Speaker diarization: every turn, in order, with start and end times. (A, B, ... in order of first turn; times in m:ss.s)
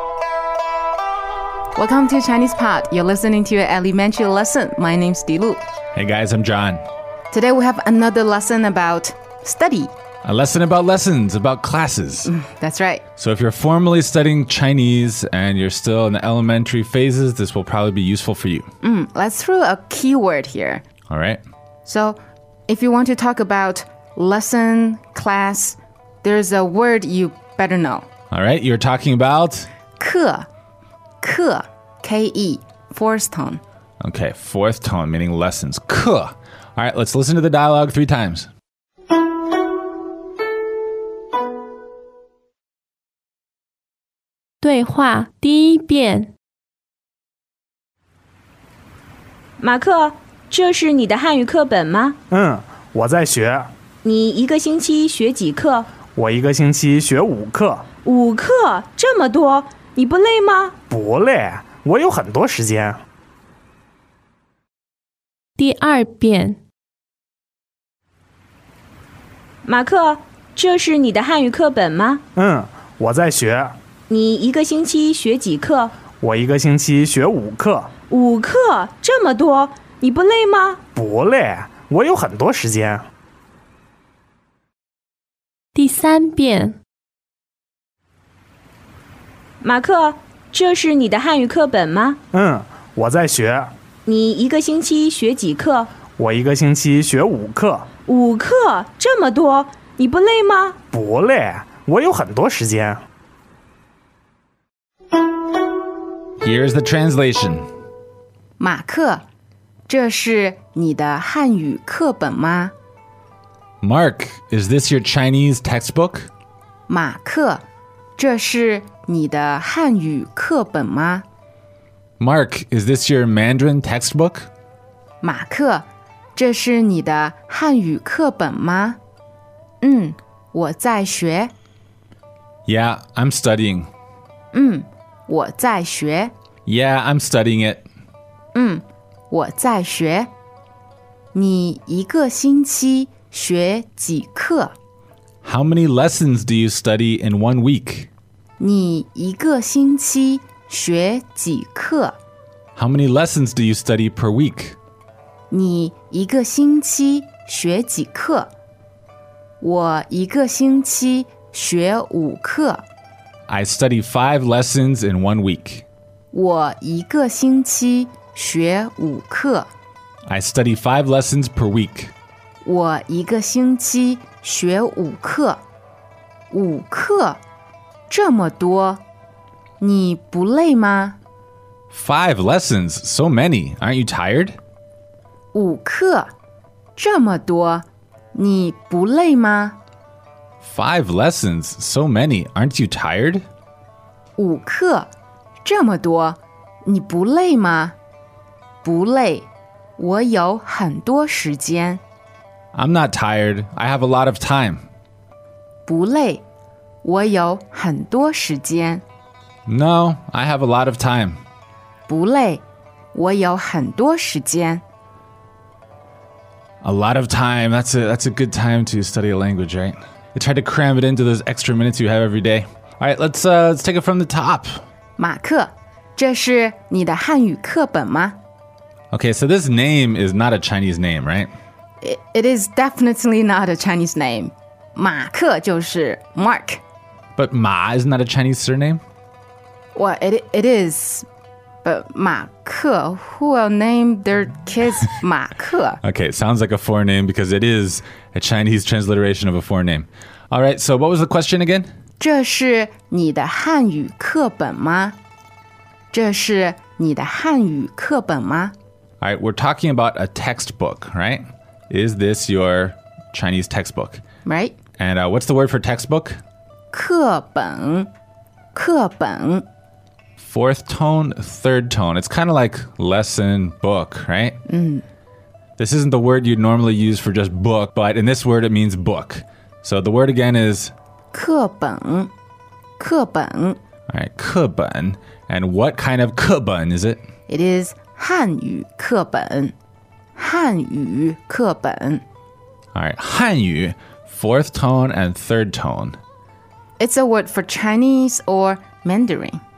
0:01.8-0:05.6 A
0:06.0-0:06.8 B
0:07.3-0:09.9 A
0:10.2-0:12.3 B
0:12.3-0:13.0 A
0:13.2-0:18.7 B
0:18.8-0:20.8 A
0:21.1-0:21.4 B
0:21.8-0:28.1 A
0:28.3-0:29.7 B
0:30.0-0:30.5 A
0:31.2-0:33.6 A
0:34.0-0:38.5 B
0:44.6-0:46.3 C
0:49.6-0:52.2 D
0:52.3-0:53.7 E
0:54.0-0:55.9 D
0:56.2-0:57.9 E
0:58.0-1:00.8 D
1:00.9-1:03.0 E
1:05.6-1:06.6 C
1:09.6-1:12.2 D
1:12.4-1:13.8 E
1:14.1-1:16.0 D
1:16.2-1:17.9 E
1:18.1-1:20.8 D
1:21.0-1:23.1 E
1:25.8-1:26.8 C
1:29.6-1:32.2 D
1:32.3-1:33.7 E
1:34.1-1:35.9 D
1:36.2-1:37.9 E
1:38.1-1:40.8 D
1:40.9-1:43.0 E
1:46.4-1:47.7 B
1:48.6-1:49.2 A
1:49.9-1:52.7 A
1:53.8-1:56.3 B
1:56.9-1:57.6 A
1:58.2-2:01.2 A
2:02.2-2:04.5 B
2:05.2-2:09.0 A
2:09.8-2:11.5 A
2:12.7-2:13.9 B
2:14.5-2:16.3 A
2:16.7-2:17.9 B
2:18.5-2:20.3 A
2:21.3-2:24.7 A
2:25.4-2:28.1 B
2:28.6-2:32.2 A
2:32.8-2:34.8 B
2:35.5-2:38.5 A
2:39.6-2:42.8 A
2:43.5-2:45.9 B
2:46.3-2:49.7 A
2:50.3-2:52.1 B
2:52.6-2:55.6 A
2:56.5-2:57.4 A
2:58.1-2:59.0 A
2:59.8-3:01.2 A
3:01.9-3:04.6 B
3:05.5-3:06.3 A
3:07.0-3:09.8 A
3:10.6-3:13.4 B
3:14.4-3:15.1 A
3:15.6-3:18.0 A
3:18.8-3:22.0 A
3:22.7-3:24.8 B
3:25.9-3:26.4 A
3:27.0-3:29.0 A
3:29.7-3:31.4 B
3:32.1-3:34.8 A
3:36.8-3:44.8 B
3:45.2-3:48.4 A
3:49.1-3:51.5 B
3:52.0-3:56.8 A
3:57.4-3:59.0 B
4:00.0-4:01.3 A
4:01.8-4:06.0 A
4:06.0-4:11.9 B
4:12.2-4:15.2 A
4:16.1-4:18.7 A
4:19.2-4:24.2 B
4:24.4-4:24.8 A
4:25.0-4:26.4 B
4:26.9-4:28.1 A
4:28.8-4:29.6 A
4:30.4-4:34.6 B
4:34.7-4:35.0 A
4:35.8-4:40.9 B
4:41.3-4:42.3 A
4:43.0-4:43.8 A
4:44.1-4:47.2 B
4:47.5-4:49.8 A
4:50.4-4:52.2 A
4:52.9-4:56.2 B
4:57.0-4:59.6 A